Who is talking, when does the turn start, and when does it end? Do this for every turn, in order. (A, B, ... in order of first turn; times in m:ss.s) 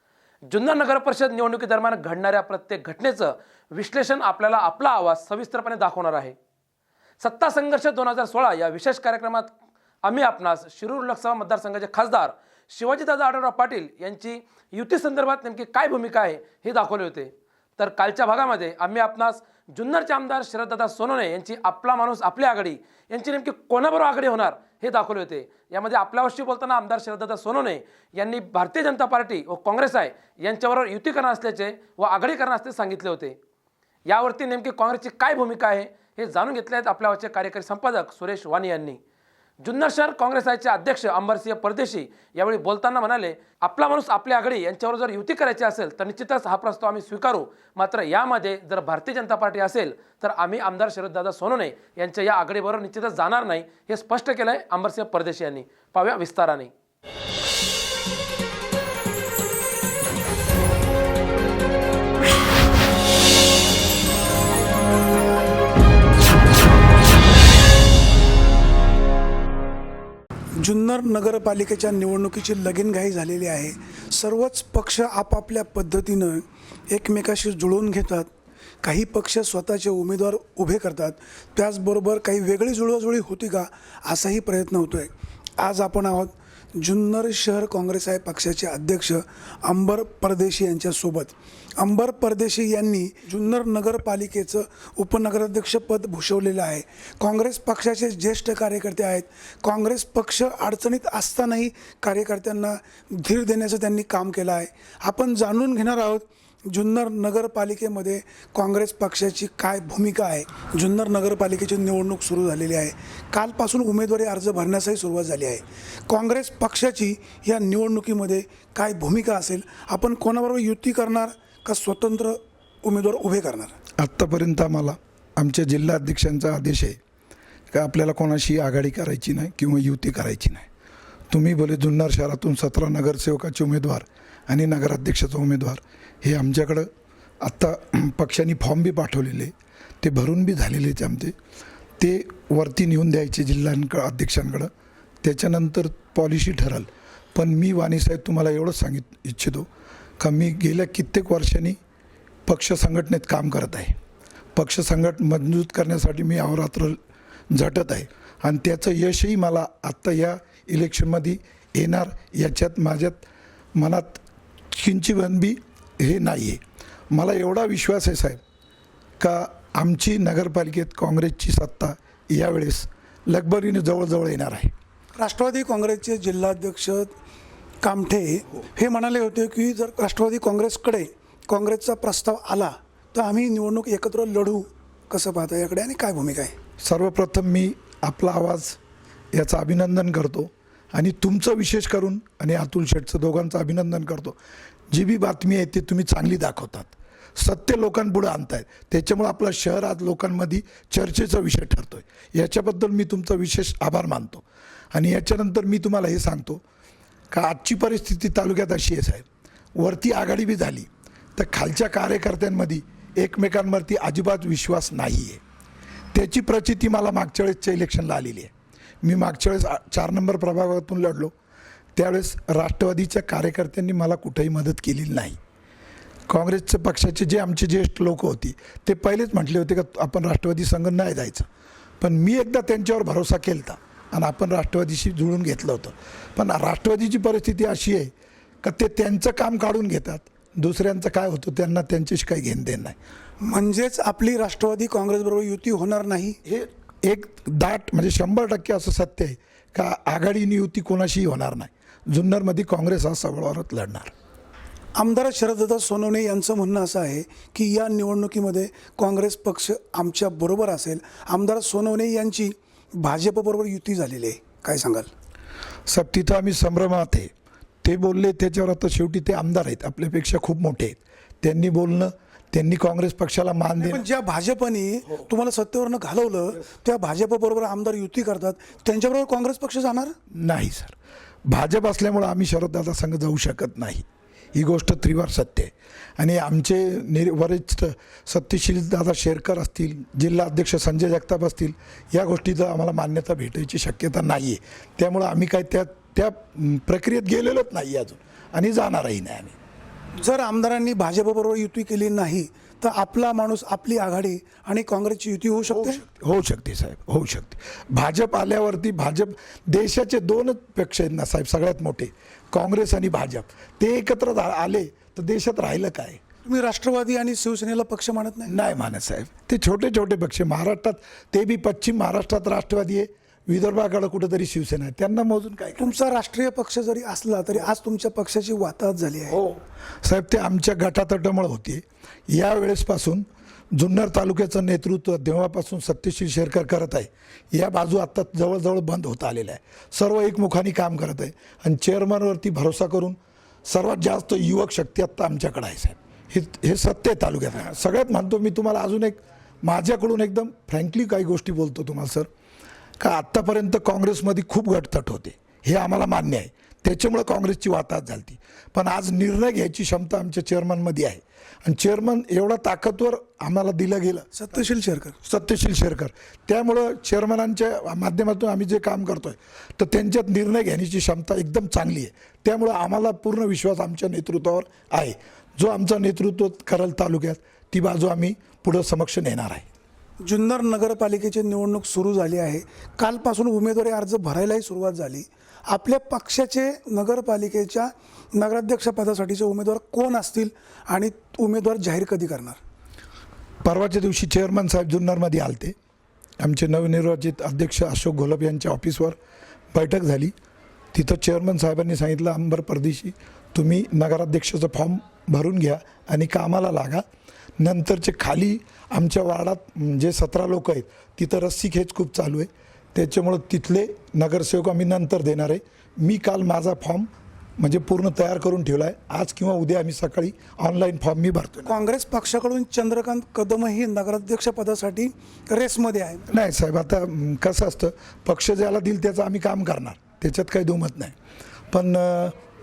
0:00.5-0:06.3 A
0:07.2-0:09.5 A
0:10.0-0:33.4 A
0:34.1-0:39.0 A
0:39.6-0:56.7 A
1:10.6-1:18.3 B
1:18.8-2:03.8 B
2:04.0-2:07.0 C
2:07.7-2:10.7 C
2:11.3-2:16.9 C
2:17.4-2:21.3 C
2:22.0-2:24.7 C
2:25.2-2:29.7 C
2:30.2-2:31.8 C
2:32.5-2:34.0 C
2:34.5-2:37.0 C
2:37.5-2:43.2 C
2:43.8-2:48.4 C
2:49.2-2:54.7 C
2:55.2-2:57.1 B
2:57.8-3:06.5 B
3:06.8-3:08.8 C
3:09.3-3:14.4 C
3:14.9-3:26.6 C
3:27.3-3:29.3 C
3:29.8-3:35.4 C
3:36.1-3:41.3 C
3:42.0-3:45.4 C
3:46.3-3:51.5 C
3:52.0-3:58.1 C
3:58.6-4:03.0 C
4:03.4-4:06.4 B
4:06.4-4:14.1 C
4:15.0-4:25.1 B
4:25.9-4:27.3 C
4:27.8-4:34.0 C
4:33.8-4:40.1 B
4:40.3-4:40.9 C
4:41.5-4:59.5 C
5:00.2-5:06.0 B
5:05.7-5:16.2 C
5:16.4-5:18.5 B
5:18.5-5:25.9 C
5:25.8-5:29.4 B
5:29.3-5:52.3 C
5:53.0-6:04.3 C
6:04.3-6:05.2 B
6:05.2-6:19.7 C
6:20.2-6:32.6 B
6:33.6-6:35.7 C
6:36.4-6:39.2 C
6:39.7-6:40.3 C
6:40.9-6:47.0 C
6:47.6-7:01.7 C
7:01.6-7:06.3 B
7:06.3-7:11.2 C
7:11.7-7:12.4 C